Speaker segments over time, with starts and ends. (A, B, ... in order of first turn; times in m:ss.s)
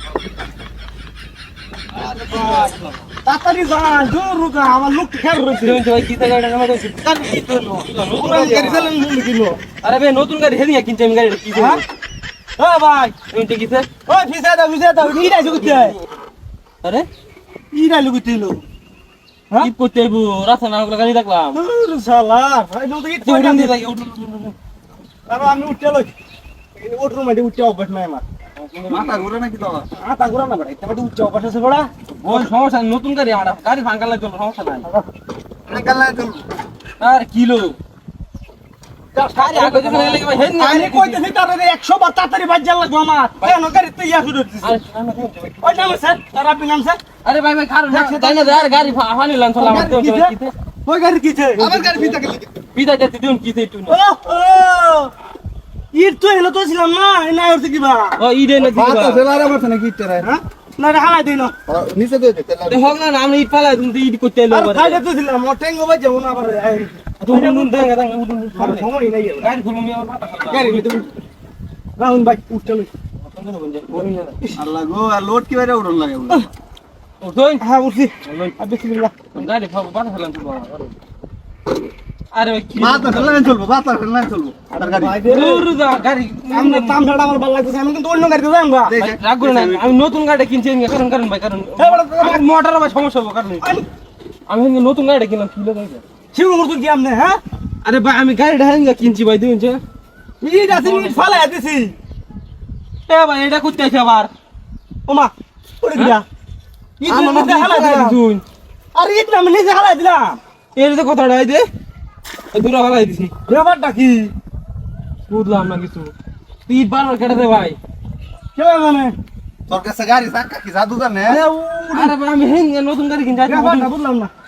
0:02.0-0:03.0 A
0:02.3-0:05.8 B
0:05.6-0:08.9 C
0:08.1-0:09.6 B
0:09.8-0:11.8 C
0:11.5-0:11.8 B
0:12.6-0:13.2 B
0:13.3-0:13.9 C
0:14.1-0:16.0 B
0:17.7-0:18.6 B
0:19.6-0:21.6 C
0:21.5-0:23.8 B
0:23.2-0:24.6 C
0:25.3-0:26.1 B
0:26.8-0:28.2 B
0:28.6-0:29.3 C
0:28.9-0:29.9 A
0:29.9-0:31.9 B
0:32.2-0:34.8 C
0:35.6-0:36.5 A
0:37.0-0:37.8 C
0:39.1-0:44.7 B
0:39.3-0:41.2 C
0:44.6-0:46.0 C
0:45.6-0:47.0 B
0:47.2-0:50.5 C
0:47.9-0:49.0 B
0:49.6-0:50.3 B
0:50.8-0:52.2 B
0:51.6-0:52.5 A
0:52.7-0:54.0 C
0:53.9-0:55.1 B
0:55.9-0:58.2 B
0:58.2-0:59.3 C
0:58.6-1:00.3 A
1:00.2-1:01.5 B
1:01.7-1:02.9 A
1:02.7-1:05.0 C
1:04.5-1:07.9 B
1:07.2-1:11.0 C
1:08.6-1:09.5 B
1:10.5-1:11.1 B
1:12.0-1:12.9 B
1:13.2-1:14.4 C
1:14.6-1:16.5 A
1:17.2-1:17.6 C
1:17.6-1:19.1 B
1:18.2-1:18.6 C
1:19.3-1:20.9 C
1:22.3-1:23.4 C
1:22.8-1:25.2 A
1:24.8-1:25.7 B
1:25.3-1:27.0 C
1:26.5-1:29.0 B
1:28.8-1:29.9 A
1:29.0-1:33.6 C
1:31.8-1:32.4 B
1:34.5-1:36.0 C
1:36.3-1:37.4 B
1:37.8-1:39.8 C
1:40.4-1:41.9 B
1:40.7-1:41.3 C
1:43.1-1:44.3 C
1:45.1-1:46.2 B
1:47.0-1:48.2 B
1:47.0-1:48.4 C
1:48.9-1:50.4 B
1:50.7-1:51.6 C
1:52.5-1:53.3 C
1:53.5-1:54.3 B
1:55.3-1:56.1 C
1:56.7-1:57.8 C
1:58.6-1:59.1 B
1:59.7-2:01.4 A
2:01.2-2:02.1 B
2:01.9-2:03.9 C
2:03.4-2:04.3 B